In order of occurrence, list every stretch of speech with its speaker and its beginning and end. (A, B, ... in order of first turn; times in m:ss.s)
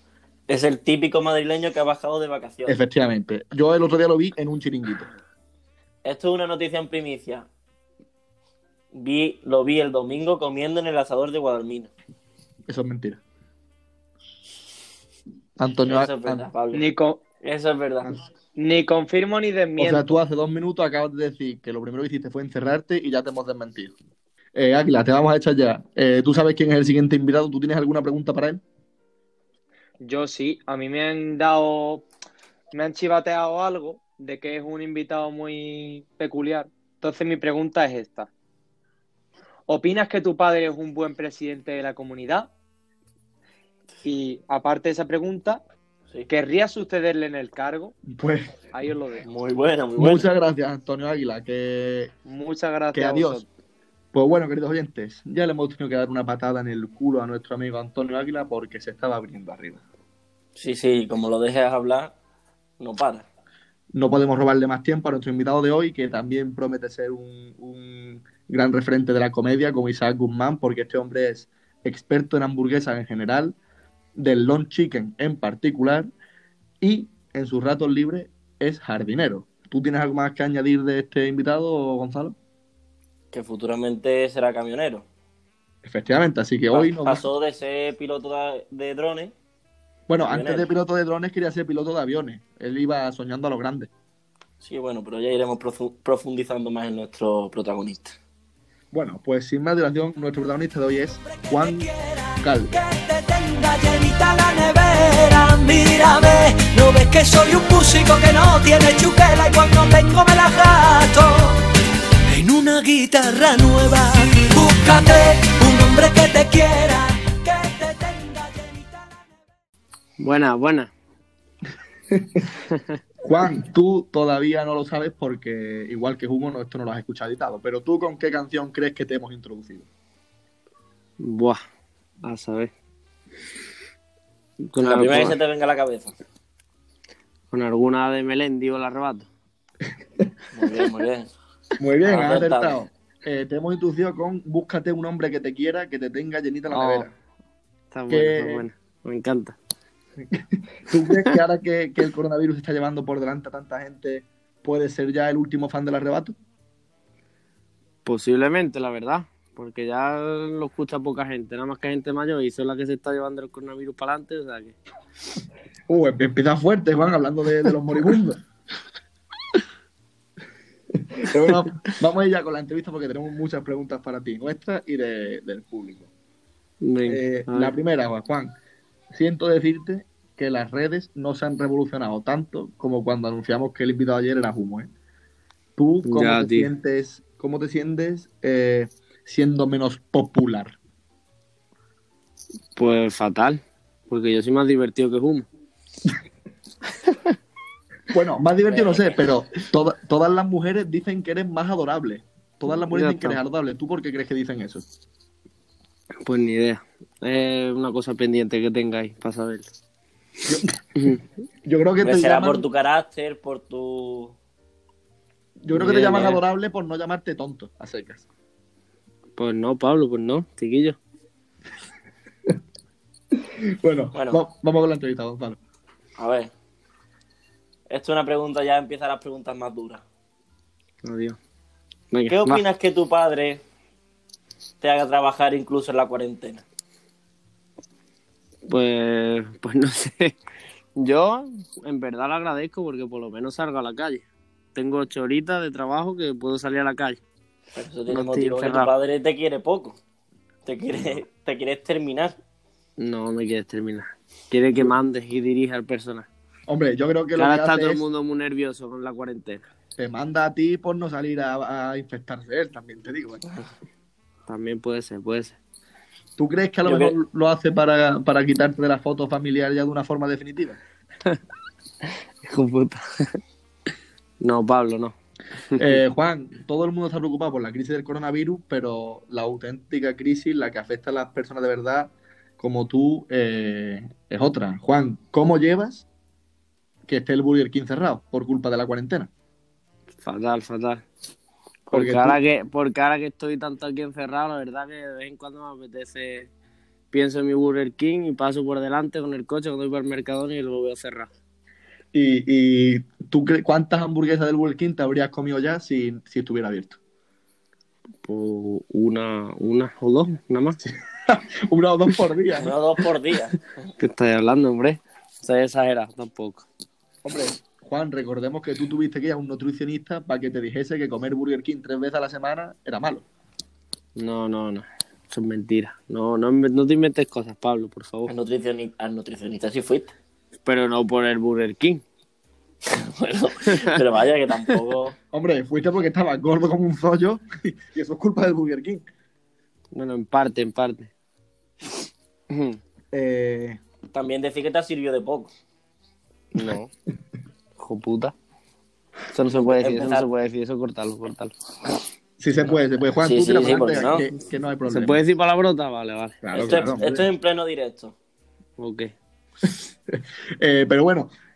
0:00.5-0:02.8 A
0:02.7-0:05.1 B
0:06.0-0:07.5 A
0:08.9-0:11.9 A
0:12.7-0:13.2 B
0:15.6-0:16.5 B
0:15.9-0:16.9 A
0:16.7-0:17.2 C
0:17.4-0:18.2 A
0:18.6-0:20.2 C
0:19.8-0:24.0 B
0:24.6-0:28.6 B
0:30.0-0:32.0 C
0:32.7-0:38.3 C
0:39.7-0:42.5 C
0:44.0-0:45.6 C
0:46.3-0:48.0 C
0:48.1-0:48.6 B
0:48.7-0:49.3 C
0:49.2-0:50.3 A
0:50.0-0:52.1 B
0:52.3-0:53.4 C
0:52.9-0:53.4 B
0:54.1-0:59.8 B
1:00.6-1:02.1 A
1:02.8-1:03.3 A
1:03.9-1:13.6 B
1:14.2-1:16.1 B
1:16.8-1:22.4 B
1:23.3-1:25.1 A
1:25.8-1:27.3 B
1:26.7-1:29.3 A
1:30.1-1:33.9 B
1:30.2-1:30.7 A
1:34.6-1:38.2 A
1:38.9-1:41.9 B
1:41.4-1:51.6 D
1:42.4-1:42.8 B
1:52.3-1:59.3 D
2:00.2-2:00.9 E
2:03.2-2:09.9 B
2:11.2-2:11.6 E
2:12.2-2:12.7 E
2:14.7-2:15.4 E
2:14.8-2:16.1 A
2:17.5-2:19.3 E
2:20.5-2:21.3 A
2:21.8-2:27.1 B
2:22.0-2:22.8 A
2:26.7-2:27.1 E
2:27.9-2:29.6 E
2:28.1-2:28.7 B
2:30.3-2:36.4 B
2:38.0-2:44.8 E
2:45.9-2:48.4 B
2:51.0-2:56.1 B
2:56.8-2:57.7 E
2:57.1-2:58.5 B
2:59.1-3:04.9 B
3:05.8-3:10.8 B
3:06.0-3:06.7 E
3:12.8-3:15.5 E
3:18.1-3:24.8 B
3:18.7-3:19.2 A
3:22.9-3:23.4 E
3:26.2-3:29.7 E
3:30.5-3:32.6 B
3:32.0-3:34.4 A
3:35.6-3:38.3 B
3:35.7-3:36.4 E
3:39.4-3:41.0 E
3:43.4-3:45.6 B
3:44.1-3:44.4 A
3:46.2-3:46.5 A
3:47.9-3:50.0 A
3:51.0-3:51.4 E
3:52.1-3:52.6 E
3:52.3-3:53.6 A
3:54.8-3:56.6 A
3:58.7-4:00.4 E
4:01.0-4:04.2 E
4:04.8-4:07.2 E
4:07.7-4:10.0 A
4:08.1-4:08.9 E
4:10.7-4:12.4 A
4:13.0-4:16.3 E
4:16.7-4:18.0 B
4:17.4-4:19.6 E
4:20.0-4:23.4 B
4:24.5-4:25.6 E
4:26.4-4:30.8 B
4:32.4-4:33.4 E
4:34.4-4:35.1 E
4:35.7-4:36.0 E
4:35.8-4:46.1 B
4:47.1-4:49.3 B
4:50.2-4:51.0 E
4:51.9-4:56.5 E
4:51.9-4:52.4 B
4:57.1-5:01.3 E
5:02.1-5:07.0 B
5:08.2-5:10.8 E
5:11.3-5:12.8 B
5:12.6-5:13.9 A
5:14.0-5:16.7 E
5:17.2-5:23.2 B
5:24.2-5:28.3 E
5:28.3-5:30.1 A
5:30.6-5:32.0 E
5:32.9-5:35.2 A
5:35.3-5:39.0 B
5:39.9-5:41.1 E
5:42.5-5:42.8 E
5:43.1-5:43.8 B
5:44.1-5:45.5 A
5:46.6-5:46.9 E
5:47.8-5:48.3 E
5:49.3-5:51.5 E
5:49.7-5:50.3 A
5:52.4-5:55.2 B
5:53.2-5:54.3 A
5:54.9-5:56.4 E
5:56.4-5:57.3 B
5:56.5-5:58.2 A
5:58.8-5:59.1 E
5:59.6-6:01.3 B